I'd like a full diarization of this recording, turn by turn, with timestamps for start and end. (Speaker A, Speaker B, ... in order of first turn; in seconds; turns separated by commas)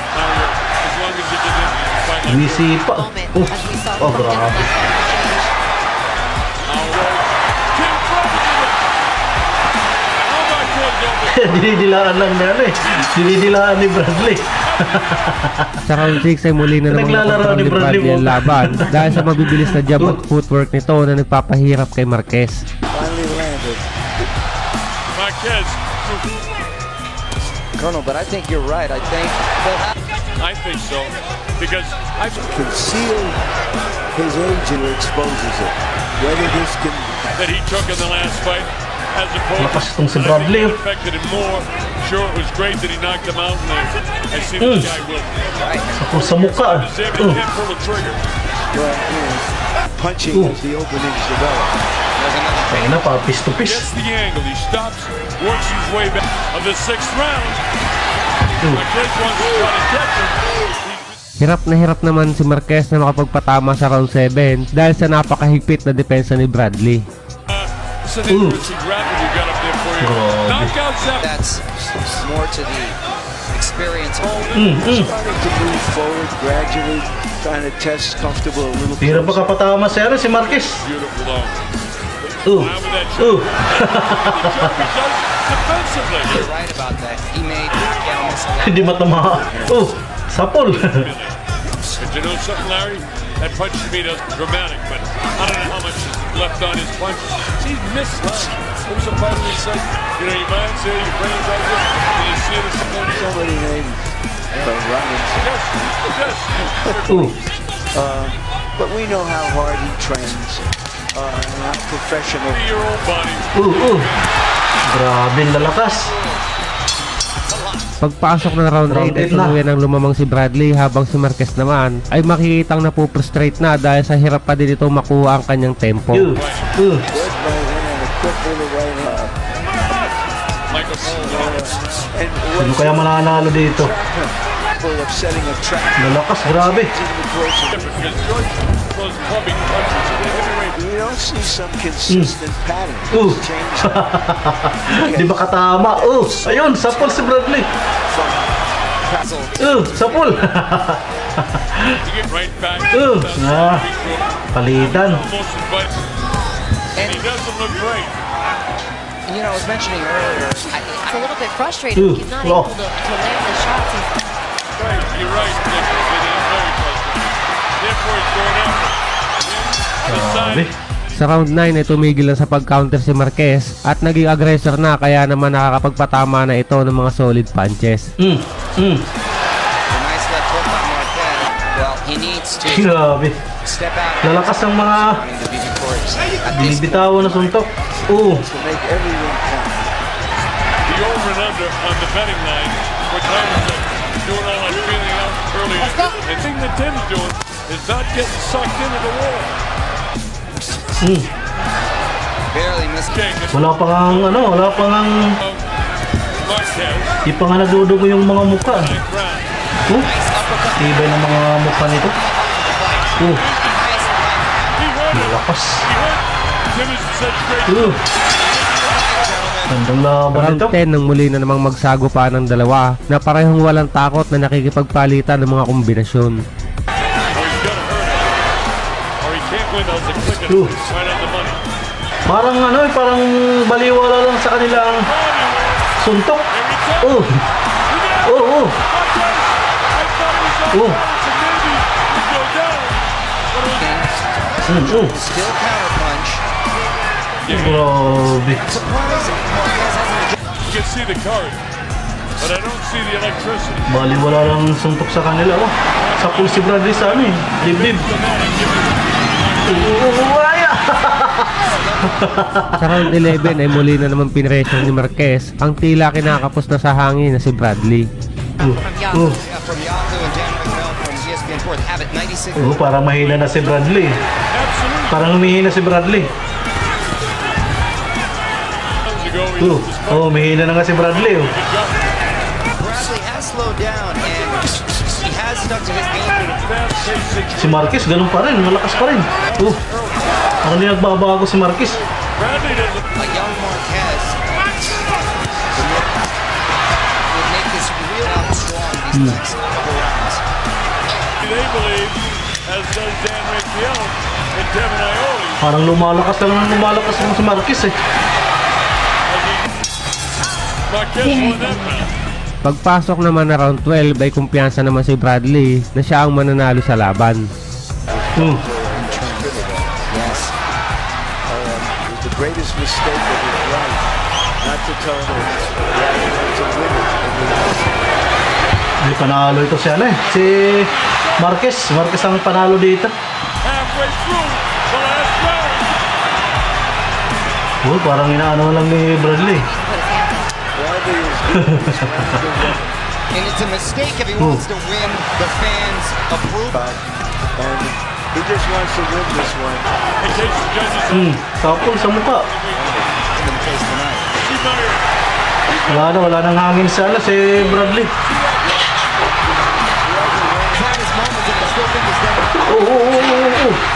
Speaker A: 0.1-2.7, Speaker B: 2.2-4.7, Speaker C: 2.8-5.5, Speaker A: 6.7-9.0, Speaker A: 10.2-11.7, Speaker B: 11.3-15.8, Speaker A: 14.6-15.3, Speaker D: 15.9-22.6, Speaker B: 16.9-20.2, Speaker E: 22.9-24.3, Speaker A: 25.1-26.4, Speaker F: 27.8-29.9, Speaker A: 30.4-32.5, Speaker E: 32.4-33.4, Speaker E: 34.1-37.4, Speaker A: 37.3-45.5, Speaker B: 39.6-40.8, Speaker B: 44.6-44.9, Speaker F: 45.6-45.9, Speaker B: 45.9-47.4, Speaker A: 46.1-48.2, Speaker E: 48.7-51.8, Speaker B: 50.3-50.6, Speaker F: 52.1-53.0, Speaker B: 52.7-53.9, Speaker A: 53.6-57.6, Speaker A: 58.6-61.2, Speaker D: 61.4-67.0, Speaker A: 67.5-71.3, Speaker B: 68.3-68.7, Speaker B: 70.0-70.7, Speaker F: 71.2-73.0, Speaker F: 73.5-74.6, Speaker A: 74.2-75.1, Speaker B: 74.5-75.1, Speaker E: 74.6-79.6, Speaker B: 79.0-80.8, Speaker A: 80.4-81.7, Speaker B: 82.5-84.8, Speaker A: 82.5-86.5, Speaker F: 86.3-89.4, Speaker B: 88.6-91.1, Speaker E: 89.5-89.8, Speaker A: 90.8-91.4, Speaker A: 92.0-103.3, Speaker E: 103.0-105.5, Speaker A: 105.3-107.5, Speaker B: 107.1-107.3, Speaker E: 107.9-112.7, Speaker A: 112.5-114.2, Speaker B: 113.6-114.1, Speaker B: 114.9-116.1, Speaker A: 115.9-116.3, Speaker F: 117.5-117.9, Speaker D: 118.0-126.3, Speaker B: 118.9-119.6, Speaker B: 126.1-127.1, Speaker A: 126.3-126.7, Speaker E: 127.1-129.5, Speaker A: 130.7-131.7, Speaker E: 131.1-138.1, Speaker B: 132.6-133.9, Speaker B: 136.0-136.9, Speaker A: 137.7-140.8, Speaker E: 140.7-144.0, Speaker B: 142.1-142.3, Speaker B: 143.1-147.7, Speaker E: 144.9-147.1, Speaker F: 146.9-147.2, Speaker E: 148.1-148.6, Speaker F: 149.0-150.5, Speaker B: 149.6-152.0, Speaker A: 152.0-156.0, Speaker B: 152.9-153.9, Speaker B: 154.5-155.2, Speaker F: 157.0-157.3, Speaker A: 157.0-158.2, Speaker F: 159.2-161.3, Speaker C: 161.1-164.2, Speaker B: 161.9-162.7, Speaker A: 164.8-170.7, Speaker B: 170.1-170.7, Speaker D: 171.2-178.0, Speaker B: 178.2-179.0, Speaker F: 179.9-182.9, Speaker B: 182.7-183.4, Speaker F: 183.6-187.6, Speaker B: 184.2-185.2, Speaker B: 186.5-188.5, Speaker E: 188.2-189.9, Speaker A: 190.8-199.6, Speaker B: 201.0-201.3, Speaker F: 202.5-203.1, Speaker A: 203.1-204.8, Speaker B: 203.5-205.3, Speaker A: 205.4-205.6, Speaker A: 206.4-207.2, Speaker B: 207.2-208.9, Speaker A: 208.6-209.5, Speaker F: 209.9-214.8, Speaker B: 210.8-212.1, Speaker B: 213.2-213.4, Speaker A: 213.3-214.1, Speaker A: 214.8-219.3, Speaker B: 215.1-215.8, Speaker B: 217.7-218.0, Speaker F: 218.6-219.8, Speaker B: 219.7-220.8, Speaker D: 220.3-226.4, Speaker A: 227.3-228.4, Speaker A: 229.2-231.6, Speaker B: 230.5-230.7, Speaker B: 232.3-235.1, Speaker A: 234.8-236.0, Speaker B: 236.0-236.5, Speaker A: 236.5-237.3, Speaker B: 237.0-237.4, Speaker A: 237.9-244.1, Speaker B: 238.2-238.8, Speaker B: 240.7-241.0, Speaker F: 243.8-246.4, Speaker B: 244.7-245.2, Speaker A: 247.4-247.9, Speaker B: 247.5-248.7, Speaker F: 248.6-250.4, Speaker A: 250.6-251.6, Speaker A: 252.4-253.9, Speaker B: 253.9-258.1, Speaker A: 255.9-260.1, Speaker B: 259.6-261.5, Speaker F: 261.4-262.4, Speaker B: 262.1-263.6, Speaker D: 262.8-268.0, Speaker B: 268.6-269.4, Speaker C: 268.6-269.3, Speaker F: 269.3-272.8, Speaker B: 272.6-274.2, Speaker A: 273.2-273.9, Speaker A: 274.5-275.4, Speaker B: 275.1-276.3, Speaker A: 279.0-282.1, Speaker B: 279.6-281.5, Speaker F: 282.8-286.5, Speaker A: 286.3-288.1, Speaker B: 287.5-289.8, Speaker A: 289.1-290.4, Speaker B: 290.6-292.0, Speaker A: 292.3-293.1, Speaker F: 293.1-294.4, Speaker F: 295.7-296.3, Speaker F: 297.3-300.4, Speaker B: 299.1-299.4, Speaker A: 301.4-305.6, Speaker B: 305.6-307.9, Speaker A: 309.3-309.8, Speaker A: 310.9-312.1, Speaker D: 312.6-317.4, Speaker E: 318.1-320.5, Speaker B: 318.4-318.6, Speaker F: 318.9-319.5, Speaker F: 320.1-320.5, Speaker E: 321.5-324.1, Speaker E: 324.6-328.0, Speaker B: 329.0-333.1, Speaker A: 330.6-331.6, Speaker A: 333.6-336.0, Speaker B: 337.8-339.7, Speaker C: 339.1-340.6, Speaker E: 340.7-342.9, Speaker F: 343.3-346.8, Speaker B: 344.4-344.6, Speaker E: 346.7-349.9, Speaker A: 350.2-353.2, Speaker B: 351.1-352.5, Speaker E: 352.7-353.1, Speaker F: 353.2-354.4, Speaker A: 354.4-355.1, Speaker A: 355.7-356.4, Speaker B: 355.9-358.1, Speaker A: 357.5-359.1, Speaker A: 360.1-360.6, Speaker E: 360.5-360.8, Speaker F: 360.7-362.9, Speaker B: 362.6-363.8